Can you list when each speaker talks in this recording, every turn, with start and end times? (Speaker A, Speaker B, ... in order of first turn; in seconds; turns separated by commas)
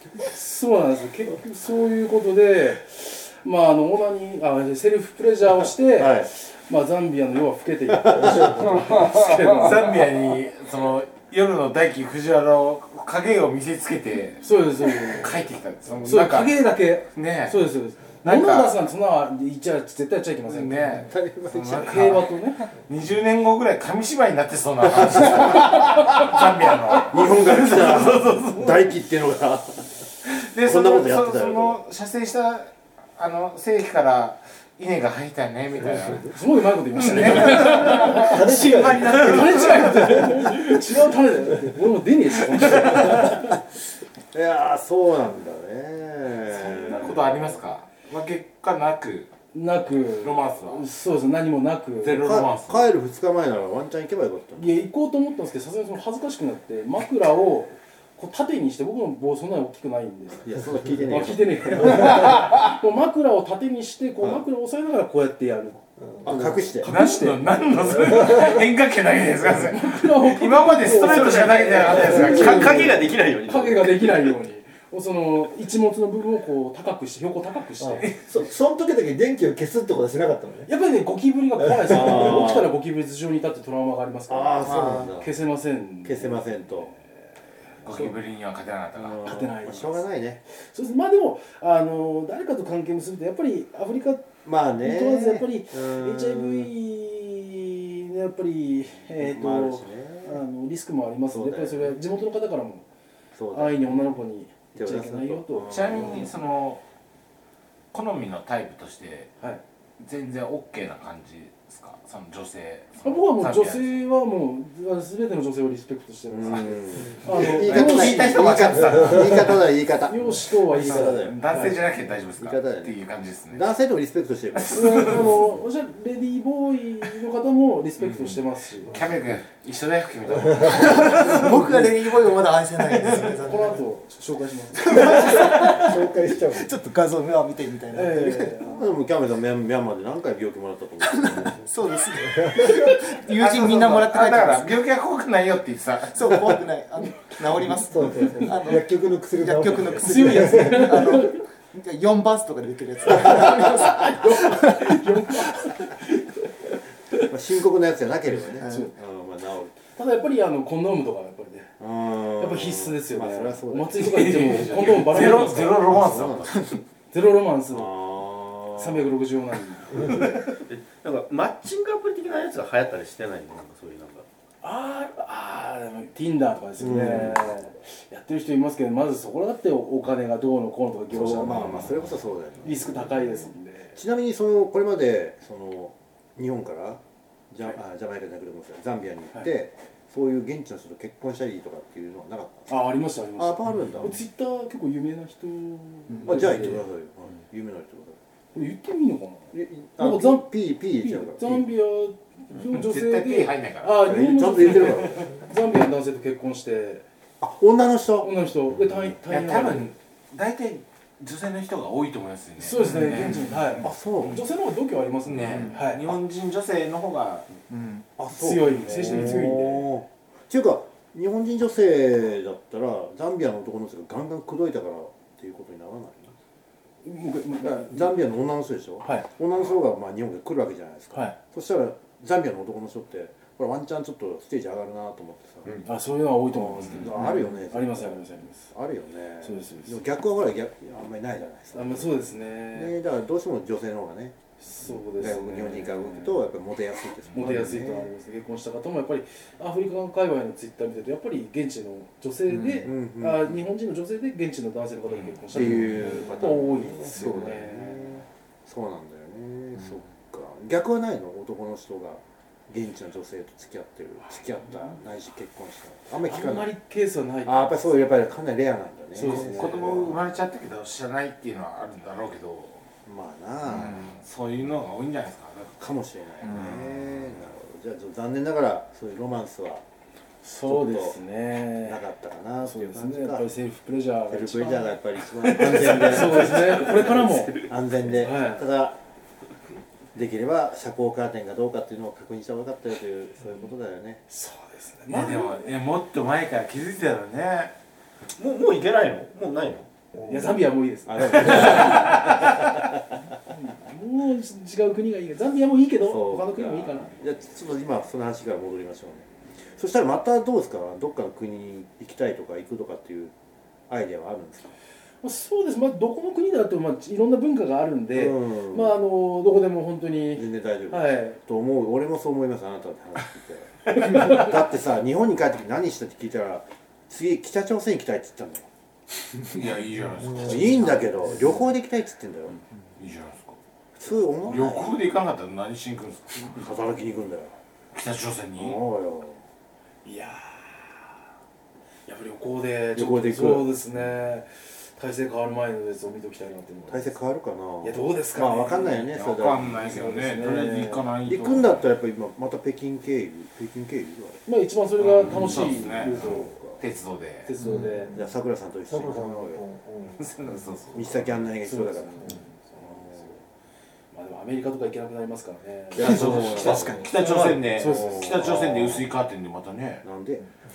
Speaker A: 0.2-9.9, Speaker B: 6.0-6.3, Speaker B: 7.9-8.6, Speaker C: 8.2-8.8, Speaker D: 9.4-14.4, Speaker A: 14.4-15.3, Speaker D: 15.0-16.6, Speaker A: 16.0-21.1, Speaker D: 17.1-17.6, Speaker D: 18.2-18.8, Speaker D: 20.5-28.8, Speaker B: 21.1-22.2, Speaker A: 21.8-22.7, Speaker B: 25.0-26.0, Speaker B: 27.1-29.9, Speaker D: 30.2-36.4, Speaker B: 30.6-31.8, Speaker A: 36.3-43.6, Speaker D: 37.0-40.2, Speaker C: 37.7-40.6, Speaker B: 44.3-47.6, Speaker D: 46.5-49.3, Speaker A: 49.5-52.2, Speaker D: 50.1-50.9, Speaker D: 52.0-52.9, Speaker B: 52.2-54.9, Speaker A: 54.6-60.5, Speaker B: 60.4-62.3, Speaker A: 61.1-65.8, Speaker C: 66.2-66.7, Speaker B: 66.2-66.9, Speaker A: 66.8-68.4, Speaker D: 66.8-73.0, Speaker A: 69.5-78.1, Speaker E: 71.0-74.2, Speaker C: 77.8-80.7, Speaker A: 80.7-86.9, Speaker C: 81.8-82.4, Speaker B: 81.9-82.7, Speaker B: 84.3-85.3, Speaker B: 86.0-86.9, Speaker A: 87.8-88.1, Speaker D: 87.8-89.2, Speaker B: 89.0-90.4, Speaker A: 89.2-94.3, Speaker B: 94.5-96.7, Speaker A: 94.8-102.8, Speaker B: 99.2-100.4, Speaker B: 101.3-102.0, Speaker B: 103.3-104.1, Speaker A: 103.5-106.3, Speaker B: 104.8-106.3, Speaker D: 105.7-106.8, Speaker D: 107.9-109.3, Speaker D: 110.0-113.9, Speaker A: 113.0-119.1, Speaker B: 116.3-121.5, Speaker D: 117.5-119.6, Speaker A: 120.0-121.8, Speaker D: 120.8-123.7, Speaker B: 122.4-123.0, Speaker B: 123.5-125.4, Speaker D: 124.6-125.2, Speaker A: 124.7-129.0, Speaker D: 128.9-131.6, Speaker F: 130.7-133.8, Speaker A: 133.2-135.8, Speaker F: 134.8-138.6, Speaker C: 135.0-136.8, Speaker A: 137.9-138.9, Speaker B: 138.6-141.6, Speaker F: 141.0-144.8, Speaker C: 142.2-143.0, Speaker D: 143.4-146.5, Speaker F: 146.1-155.0, Speaker C: 147.7-151.0, Speaker A: 150.0-151.4, Speaker A: 153.3-156.3, Speaker B: 157.3-159.7, Speaker A: 158.6-158.9, Speaker A: 160.0-161.7, Speaker B: 161.8-164.4, Speaker A: 162.4-165.8, Speaker D: 164.0-166.7, Speaker B: 165.8-166.7, Speaker A: 167.1-167.9, Speaker B: 167.7-169.1, Speaker A: 168.8-170.2, Speaker E: 170.7-174.3, Speaker A: 174.6-181.9, Speaker B: 176.8-177.5, Speaker B: 181.1-183.3, Speaker A: 182.6-184.0, Speaker B: 183.9-192.7, Speaker A: 192.7-196.8, Speaker B: 193.4-194.2, Speaker B: 196.2-198.2, Speaker A: 198.5-207.1, Speaker B: 199.5-201.7, Speaker D: 202.7-204.0, Speaker B: 204.0-205.3, Speaker B: 207.4-209.1, Speaker A: 208.2-209.9, Speaker D: 209.3-213.5, Speaker A: 212.6-216.0, Speaker B: 213.8-214.4, Speaker D: 215.2-217.5, Speaker B: 218.2-226.3, Speaker A: 218.3-219.9, Speaker A: 227.0-228.2, Speaker B: 227.6-235.8, Speaker A: 229.0-229.3, Speaker A: 231.1-231.4, Speaker A: 235.8-238.7, Speaker B: 236.5-244.4, Speaker A: 239.4-240.0, Speaker A: 241.7-242.9, Speaker A: 244.6-246.3, Speaker B: 245.1-248.1, Speaker A: 247.3-258.2, Speaker B: 252.6-253.6, Speaker D: 255.1-255.7, Speaker B: 255.5-266.7, Speaker A: 266.2-268.1, Speaker B: 267.4-270.2, Speaker A: 269.1-270.1, Speaker D: 269.3-272.8, Speaker B: 273.1-274.2, Speaker D: 273.7-275.9, Speaker B: 275.8-279.8, Speaker A: 280.4-282.0, Speaker B: 280.6-281.2, Speaker B: 281.8-283.5, Speaker A: 282.6-287.6, Speaker B: 284.3-289.0, Speaker A: 288.1-288.6, Speaker B: 290.1-294.2, Speaker A: 294.3-295.6, Speaker D: 295.1-297.7, Speaker E: 298.4-299.9, Speaker A: 300.3-302.7, Speaker B: 301.1-302.6, Speaker A: 303.5-307.1, Speaker B: 306.0-313.3, Speaker B: 313.9-314.7, Speaker A: 315.2-321.4, Speaker B: 318.1-319.0, Speaker B: 320.3-328.7, Speaker D: 329.5-331.1, Speaker B: 330.4-332.6, Speaker D: 333.0-333.6, Speaker B: 334.0-335.0, Speaker D: 334.4-336.6, Speaker B: 336.5-337.6, Speaker D: 337.9-338.8, Speaker B: 338.6-339.4, Speaker A: 340.1-341.0, Speaker A: 342.1-347.1, Speaker B: 342.9-343.7, Speaker B: 346.9-350.1, Speaker A: 347.8-349.0, Speaker D: 349.1-351.8, Speaker A: 349.8-351.0, Speaker B: 351.3-354.4, Speaker A: 354.5-356.8, Speaker D: 355.0-357.5, Speaker B: 355.4-356.5, Speaker A: 357.4-358.1, Speaker C: 357.6-358.2, Speaker B: 358.1-359.6, Speaker C: 358.9-360.2, Speaker D: 360.2-361.4, Speaker B: 360.9-363.2, Speaker A: 361.6-363.4, Speaker A: 364.1-368.5, Speaker B: 365.9-369.1, Speaker D: 366.0-370.0, Speaker F: 366.6-367.0, Speaker B: 370.0-370.5